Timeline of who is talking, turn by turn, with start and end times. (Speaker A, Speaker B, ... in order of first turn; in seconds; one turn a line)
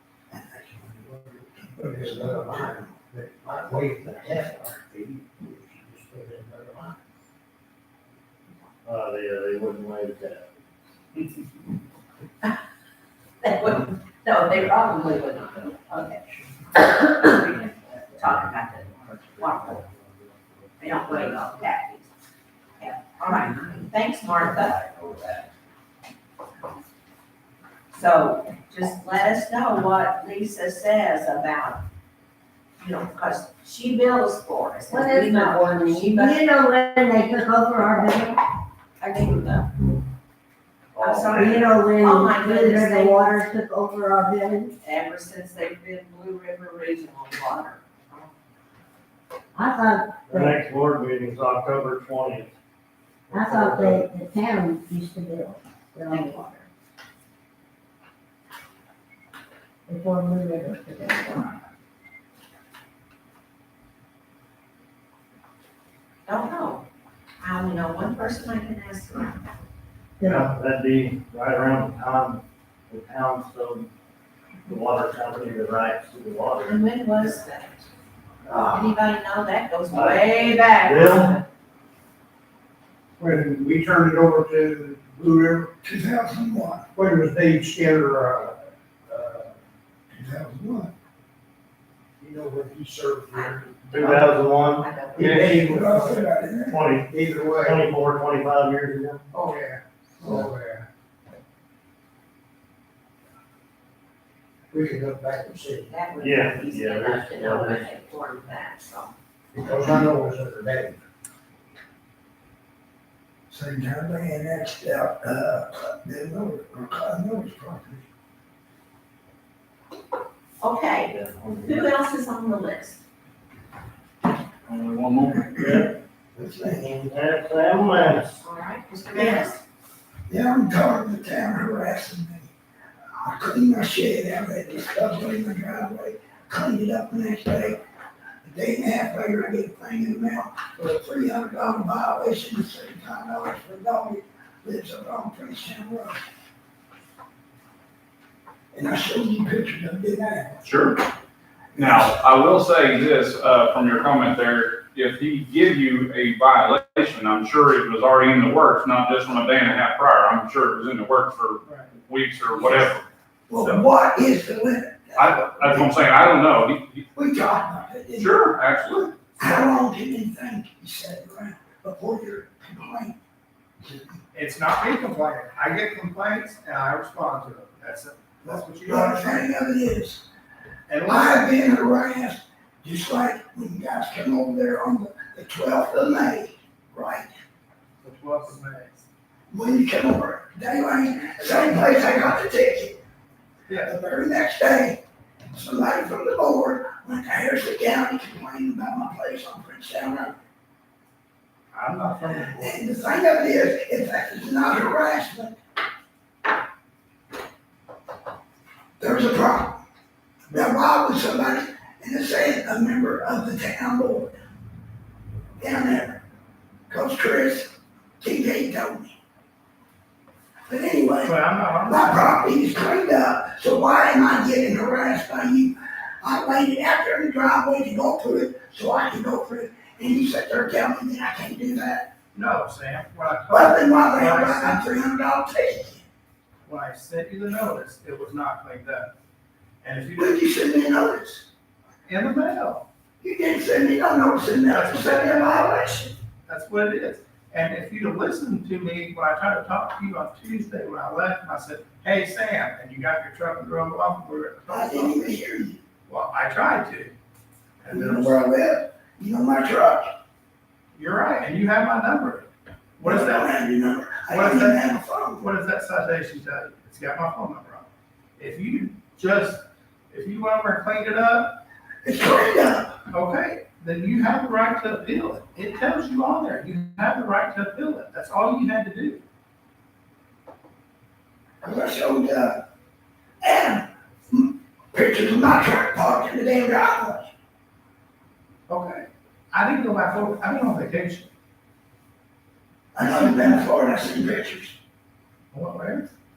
Speaker A: 0.3-2.9
Speaker B: 1.8-7.0
Speaker C: 8.8-10.5
Speaker D: 13.4-19.8
Speaker D: 20.8-22.1
Speaker D: 22.8-24.9
Speaker D: 27.9-31.8
Speaker D: 32.8-36.5
Speaker E: 34.9-38.4
Speaker D: 39.0-39.7
Speaker C: 40.9-41.9
Speaker D: 41.0-43.5
Speaker E: 41.4-44.7
Speaker D: 44.8-48.3
Speaker E: 49.5-50.5
Speaker C: 50.3-52.5
Speaker C: 53.3-54.1
Speaker E: 53.3-56.6
Speaker E: 59.9-61.6
Speaker D: 66.2-66.8
Speaker D: 67.4-69.4
Speaker E: 70.2-70.5
Speaker C: 70.3-73.9
Speaker C: 74.6-76.8
Speaker D: 76.6-77.9
Speaker D: 78.5-81.4
Speaker C: 79.9-81.4
Speaker B: 83.2-85.8
Speaker A: 85.8-86.9
Speaker B: 86.9-89.6
Speaker B: 90.1-90.9
Speaker B: 92.2-94.2
Speaker D: 93.3-95.6
Speaker C: 93.9-95.5
Speaker B: 95.1-96.3
Speaker A: 95.4-96.8
Speaker C: 96.7-99.2
Speaker B: 97.0-97.9
Speaker F: 99.3-99.8
Speaker B: 100.2-100.8
Speaker B: 104.7-106.1
Speaker D: 105.9-109.1
Speaker C: 106.2-108.0
Speaker B: 109.5-111.0
Speaker A: 113.5-118.0
Speaker D: 120.6-123.0
Speaker C: 121.0-121.9
Speaker G: 124.7-125.7
Speaker C: 125.5-125.9
Speaker A: 126.3-127.0
Speaker C: 126.6-128.4
Speaker D: 128.4-129.6
Speaker A: 130.3-132.5
Speaker A: 133.2-137.8
Speaker A: 138.4-146.2
Speaker A: 148.7-150.7
Speaker G: 150.6-151.0
Speaker A: 151.7-152.2
Speaker G: 151.8-163.8
Speaker F: 161.7-162.0
Speaker A: 163.5-165.9
Speaker G: 165.2-167.1
Speaker A: 167.1-168.4
Speaker G: 168.2-169.2
Speaker A: 169.4-173.2
Speaker A: 173.8-174.1
Speaker F: 174.3-179.5
Speaker A: 178.4-180.2
Speaker F: 180.9-181.6
Speaker A: 181.1-187.3
Speaker F: 188.0-189.0
Speaker A: 189.5-193.0
Speaker F: 193.7-193.9
Speaker A: 193.8-195.0
Speaker A: 195.5-200.4
Speaker F: 201.7-202.8
Speaker A: 202.5-205.6
Speaker A: 209.0-209.8
Speaker F: 210.5-210.7
Speaker A: 210.5-214.3
Speaker A: 215.6-216.2
Speaker A: 216.9-219.2
Speaker A: 220.7-221.3
Speaker F: 221.2-222.5
Speaker A: 221.8-232.1
Speaker F: 232.3-234.8
Speaker A: 233.5-236.1
Speaker F: 236.7-239.1
Speaker F: 239.8-240.4
Speaker A: 240.1-241.5
Speaker F: 242.1-242.8
Speaker A: 243.2-246.1
Speaker F: 244.7-245.8
Speaker F: 246.4-255.3
Speaker A: 254.7-255.8
Speaker F: 256.1-257.1
Speaker F: 257.8-258.4
Speaker A: 257.9-260.1
Speaker F: 260.9-263.5
Speaker A: 263.0-265.5
Speaker F: 264.2-264.8
Speaker F: 265.4-267.9
Speaker F: 268.4-271.6
Speaker A: 272.0-272.9
Speaker F: 273.1-279.2
Speaker A: 281.6-282.6
Speaker A: 283.4-287.3
Speaker F: 288.7-291.3
Speaker A: 292.9-294.8
Speaker F: 293.0-293.7
Speaker F: 295.5-296.1